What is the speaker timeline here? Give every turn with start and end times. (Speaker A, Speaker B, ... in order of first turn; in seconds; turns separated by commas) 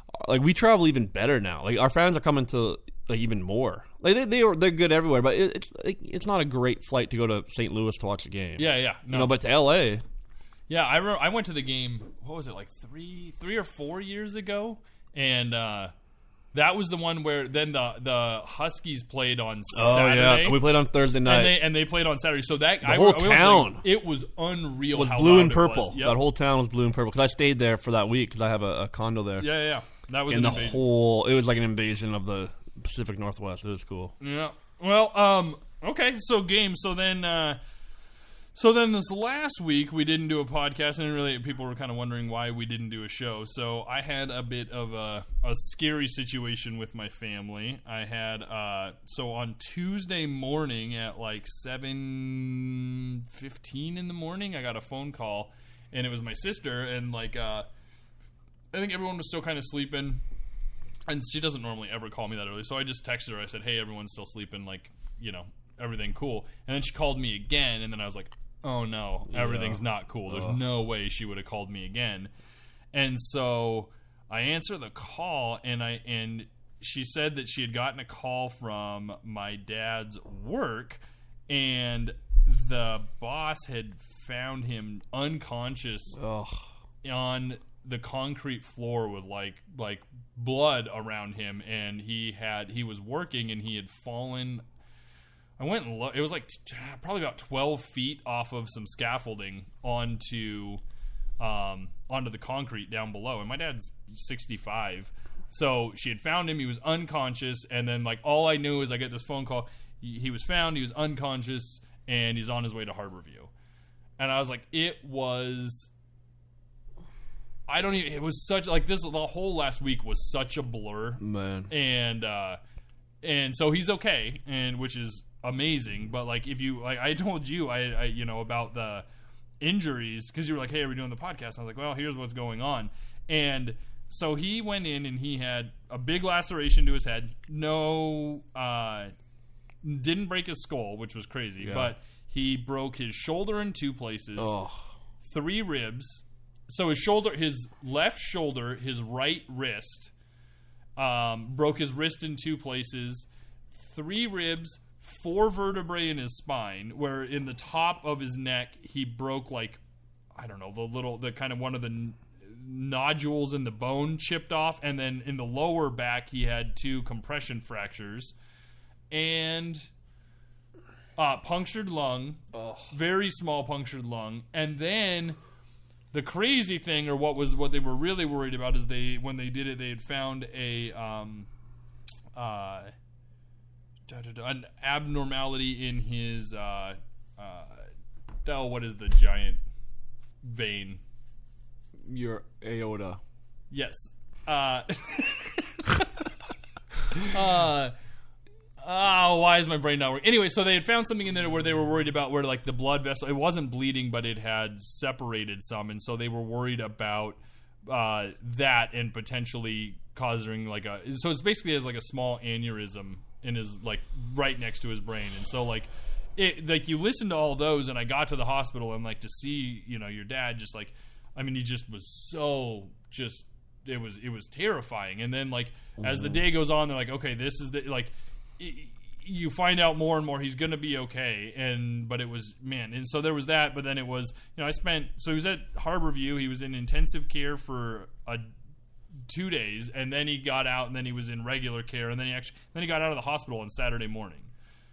Speaker A: 0.2-10.0, Speaker B: 8.6-9.3, Speaker B: 10.7-15.9, Speaker B: 16.5-20.6, Speaker A: 19.7-21.6, Speaker B: 21.2-26.2, Speaker A: 22.8-23.8, Speaker A: 24.9-29.5, Speaker B: 29.4-30.8, Speaker A: 30.3-34.1, Speaker B: 34.2-37.6, Speaker B: 38.5-57.7, Speaker B: 58.7-60.2, Speaker B: 61.1-72.3, Speaker A: 69.3-70.6, Speaker B: 72.9-86.2, Speaker A: 86.2-86.6, Speaker B: 87.0-94.6, Speaker B: 95.6-100.8, Speaker B: 101.4-113.5, Speaker B: 114.2-115.9, Speaker B: 117.7-122.6, Speaker A: 121.2-121.7, Speaker B: 123.2-129.0, Speaker B: 129.6-139.1, Speaker B: 139.8-144.5, Speaker A: 141.6-141.9, Speaker A: 144.4-144.8, Speaker B: 145.2-150.1, Speaker B: 151.0-159.8, Speaker B: 160.3-168.3, Speaker B: 169.1-169.9, Speaker B: 171.2-175.4, Speaker A: 172.5-172.9, Speaker B: 176.1-181.5, Speaker B: 182.3-182.9, Speaker B: 184.1-187.9, Speaker B: 188.4-189.6, Speaker B: 190.4-191.0, Speaker A: 192.0-193.2, Speaker B: 193.7-196.1, Speaker B: 197.1-197.9, Speaker B: 198.8-238.5, Speaker A: 226.0-226.4, Speaker B: 239.3-244.5